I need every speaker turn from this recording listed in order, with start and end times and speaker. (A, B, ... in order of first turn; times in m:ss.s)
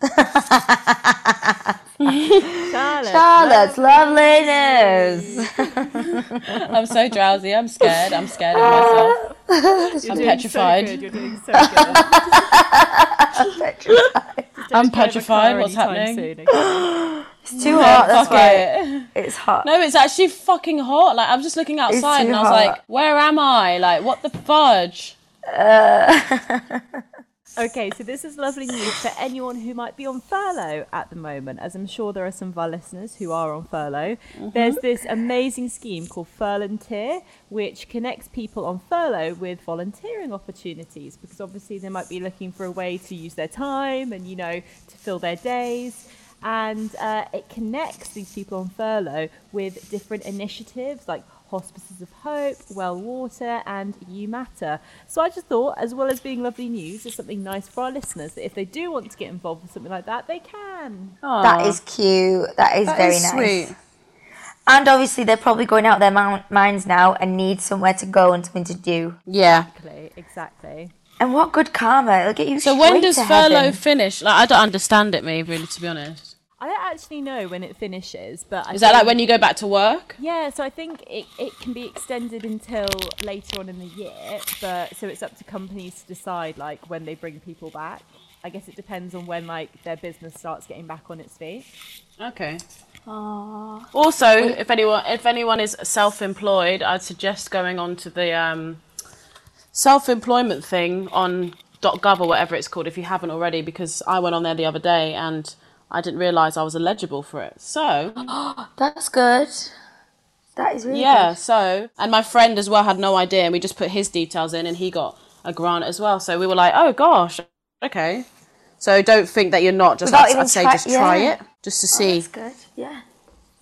0:00.1-0:02.4 A
0:02.6-0:06.0 B
0:03.0-0:05.4 A
0:06.0-0:06.2 A
0:06.5-0:09.2 C
0:08.6-0:10.4 A
0:08.6-0:09.0 B
0:10.0-0:12.5 B
0:10.0-0:11.0 C
0:11.6-0:14.4 A
0:14.6-0:16.8 B
0:14.7-0:16.3 C
0:16.5-0:19.7 A
0:17.6-0:18.5 B
0:17.6-0:19.1 C
0:19.6-0:25.2 C
0:21.9-0:22.8 A
0:25.5-0:26.8 A
0:27.6-1:01.2 B
0:34.3-0:34.8 C
1:01.2-1:01.8 C
1:01.4-1:03.7 A
1:02.8-1:03.8 C
1:04.7-1:09.2 A
1:09.3-1:09.7 C
1:09.6-1:10.9 B
1:11.2-1:13.8 A
1:12.6-1:16.3 C
1:16.6-1:19.2 B
1:18.7-1:20.2 C
1:20.2-1:31.7 B
1:32.2-1:32.6 C
1:33.1-1:33.9 A
1:33.9-1:38.8 C
1:39.7-1:48.3 C
1:48.2-1:49.7 A
1:50.6-1:51.3 A
1:50.9-1:58.2 C
1:58.8-2:02.2 C
2:00.0-2:01.3 A
2:01.9-2:03.0 A